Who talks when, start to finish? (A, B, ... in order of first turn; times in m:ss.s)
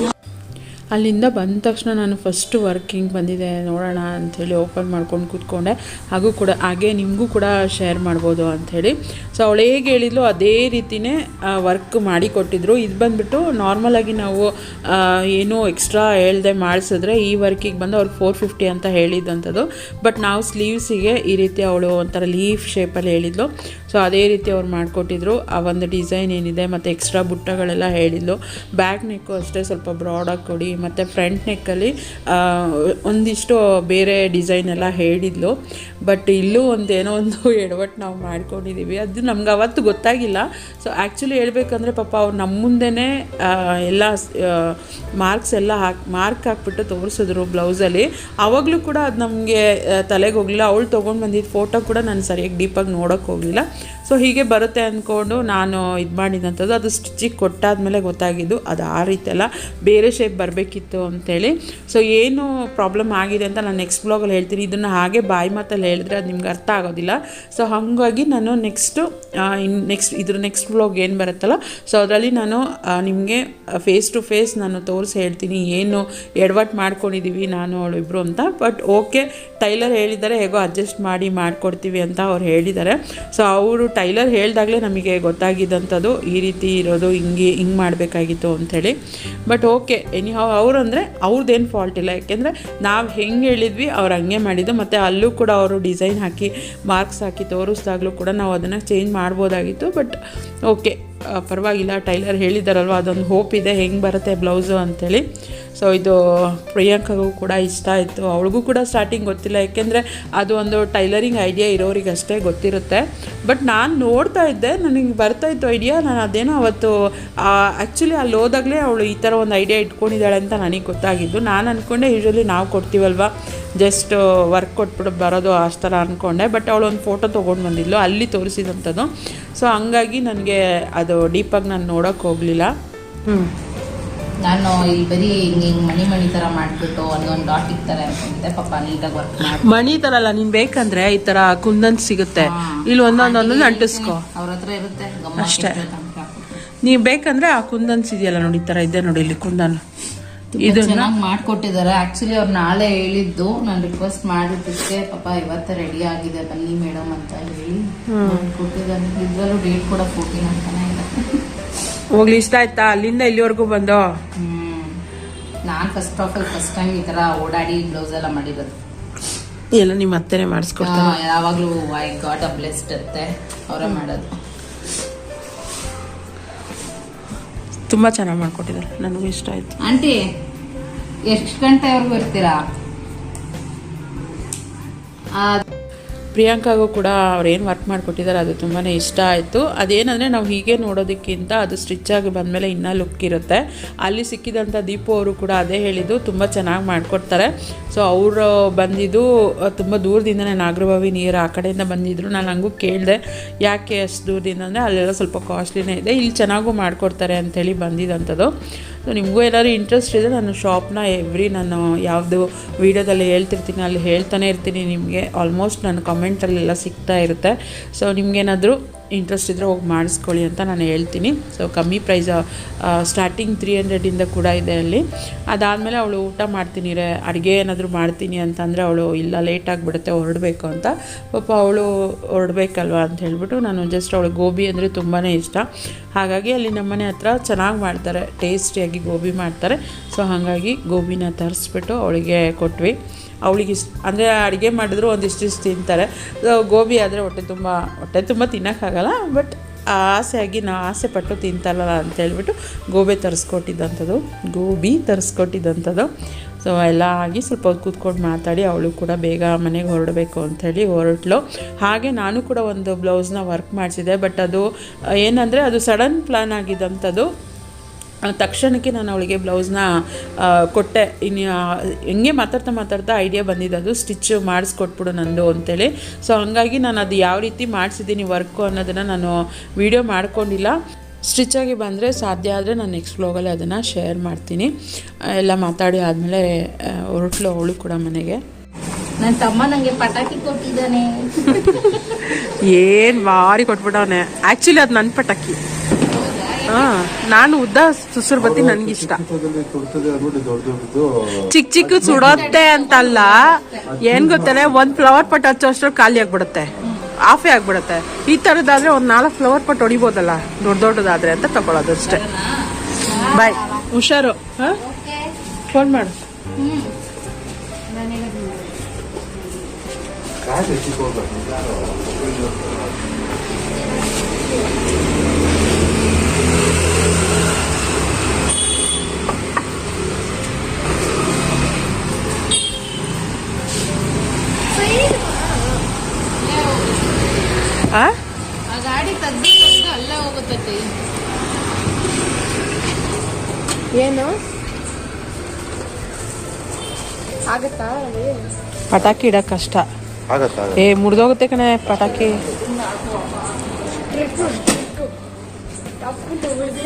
0:00.9-1:28.9 A
1:29.5-1:45.2 A
1:45.8-1:56.9 A
1:57.4-2:12.7 A
2:14.4-2:19.7 B
2:19.5-2:24.2 C
2:22.4-2:26.6 B
2:25.4-2:25.8 C
2:26.8-2:29.8 C
2:30.5-2:41.4 B
2:30.6-2:31.1 C
2:38.1-2:38.4 C
2:42.1-2:44.1 C
2:44.4-2:45.0 B
2:45.6-2:48.8 B
2:49.7-2:51.2 C
2:50.8-2:54.3 B
2:57.9-2:59.8 C
2:59.8-3:00.2 B
3:01.3-3:02.6 B
3:05.4-3:05.6 B
3:06.3-3:28.5 A
3:29.0-3:55.6 A
3:56.2-4:02.9 A
4:03.4-4:16.1 A
4:16.6-4:24.6 A
4:25.2-4:27.3 A
4:28.2-4:29.9 A
4:30.4-4:40.8 A
4:41.3-4:44.7 A
4:45.4-4:48.4 A
4:49.2-4:51.6 B
4:51.5-4:55.6 C
4:56.1-4:56.9 B
4:56.7-4:59.2 C
4:58.4-5:02.6 D
5:01.5-5:06.7 C
5:02.0-5:03.9 B
5:03.9-5:05.2 D
5:07.3-5:12.2 C
5:12.0-5:13.9 B
5:13.3-5:14.8 C
5:14.7-5:15.3 B
5:15.7-5:16.2 C
5:16.6-5:16.9 B
5:17.9-5:18.6 B
5:20.4-5:23.0 D
5:36.4-5:37.3 B
5:38.7-5:40.9 B
5:44.0-5:44.2 C
5:48.9-5:49.8 C
5:50.3-5:50.8 D
5:50.8-5:52.5 C